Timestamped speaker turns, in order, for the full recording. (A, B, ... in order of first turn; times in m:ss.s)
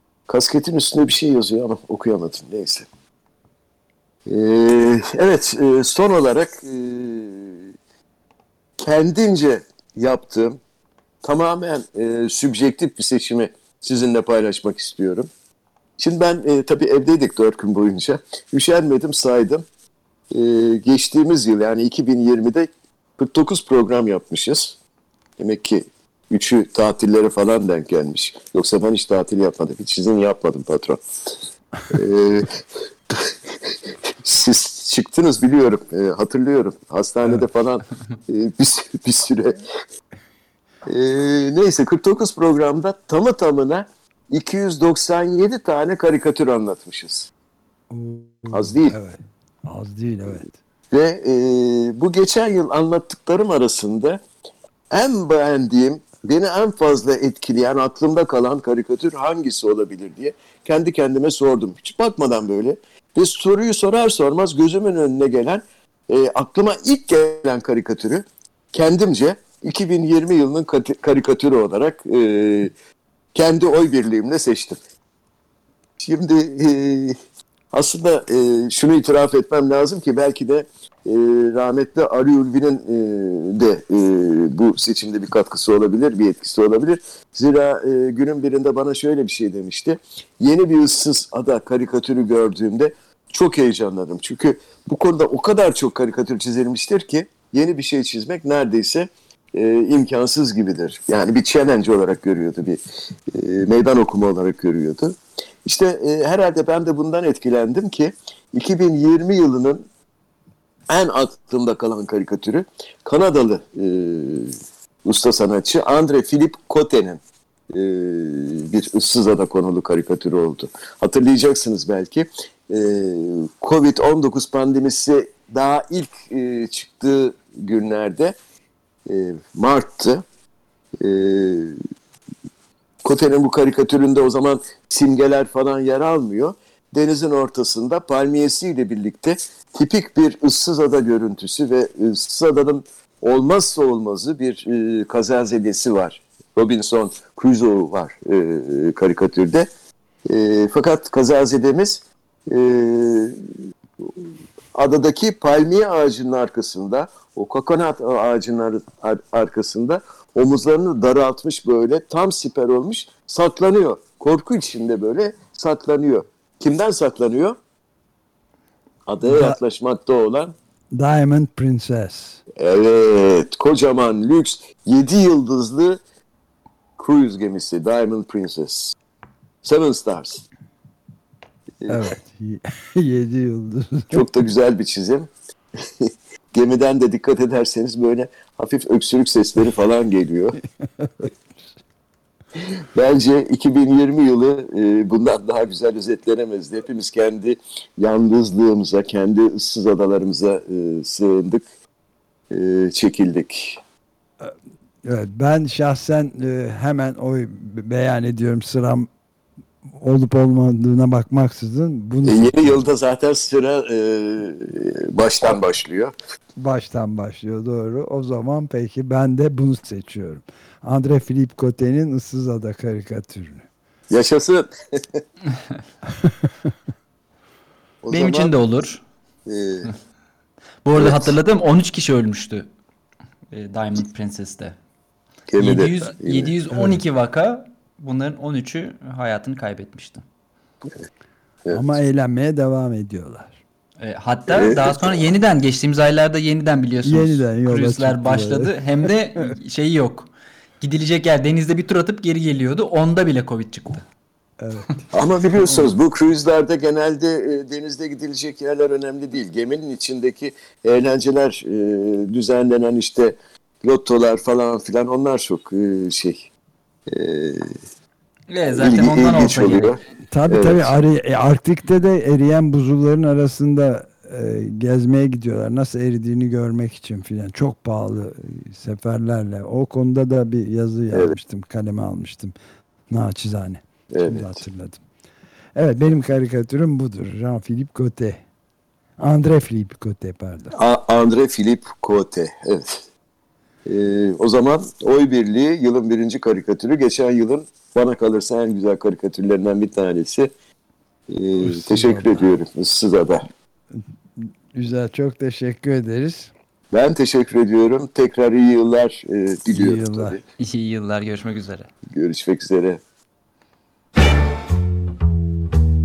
0:00.3-0:02.9 A
0:04.3-0:07.7 A
0:08.8-0:10.6 A
0:11.2-0:15.3 A
0:16.0-0:19.6 A
0:20.3-0:24.8 A
0:25.4-0:31.0 A
0:31.9-0:32.6 A
0:33.1-0:39.6 A
0:40.9-0:47.3 A
0:47.9-0:50.5 B
0:48.5-0:48.9 A
0:50.9-0:54.2 A
0:54.9-1:12.7 A
1:13.4-1:14.8 A
1:16.0-1:17.2 A
1:17.7-1:49.8 A
1:50.9-1:57.2 A
1:57.7-2:08.4 A
2:09.0-2:10.2 A
2:11.0-2:11.8 A
2:13.0-2:29.7 A
2:30.3-2:33.4 A
2:34.0-2:47.6 A
2:49.1-2:50.5 A
2:49.2-2:49.6 B
2:50.9-2:52.4 B
2:52.6-2:56.0 A
2:57.0-2:58.9 A
2:59.6-3:00.4 A
3:01.9-3:04.2 B
3:04.1-3:05.3 A
3:05.8-3:10.6 A
3:10.8-3:11.3 B
3:12.6-3:21.6 A
3:22.5-3:23.8 A
3:24.4-3:29.1 B
3:30.0-3:32.9 B
3:32.2-3:36.1 A
3:36.6-3:43.6 B
3:44.1-3:45.2 A
3:48.0-3:48.6 A
3:48.1-3:49.0 C
3:49.4-3:49.9 A
3:50.8-3:52.7 C
3:50.9-3:51.4 A
3:53.5-3:54.8 C
3:55.5-3:56.5 A
3:55.6-4:00.2 C
3:56.7-3:57.0 B
4:01.7-4:03.6 B
4:04.0-4:14.0 C
4:04.5-4:05.2 A
4:07.0-4:09.5 B
4:14.6-4:15.0 B
4:15.1-4:26.5 A
4:27.1-4:27.7 A
4:28.5-4:29.9 C
4:28.7-4:30.9 A
4:30.3-4:42.5 B
4:41.1-4:41.4 A
4:43.1-4:45.0 B
4:44.1-4:44.6 A
4:45.7-4:48.4 B
4:49.2-4:50.7 B
4:50.7-4:53.0 A
4:53.9-5:00.5 A
5:01.3-5:03.5 A
5:01.6-5:02.4 B
5:04.4-5:06.5 B
5:06.9-5:10.4 A
5:09.7-5:10.4 B
5:10.6-5:11.9 C
5:12.1-5:13.0 A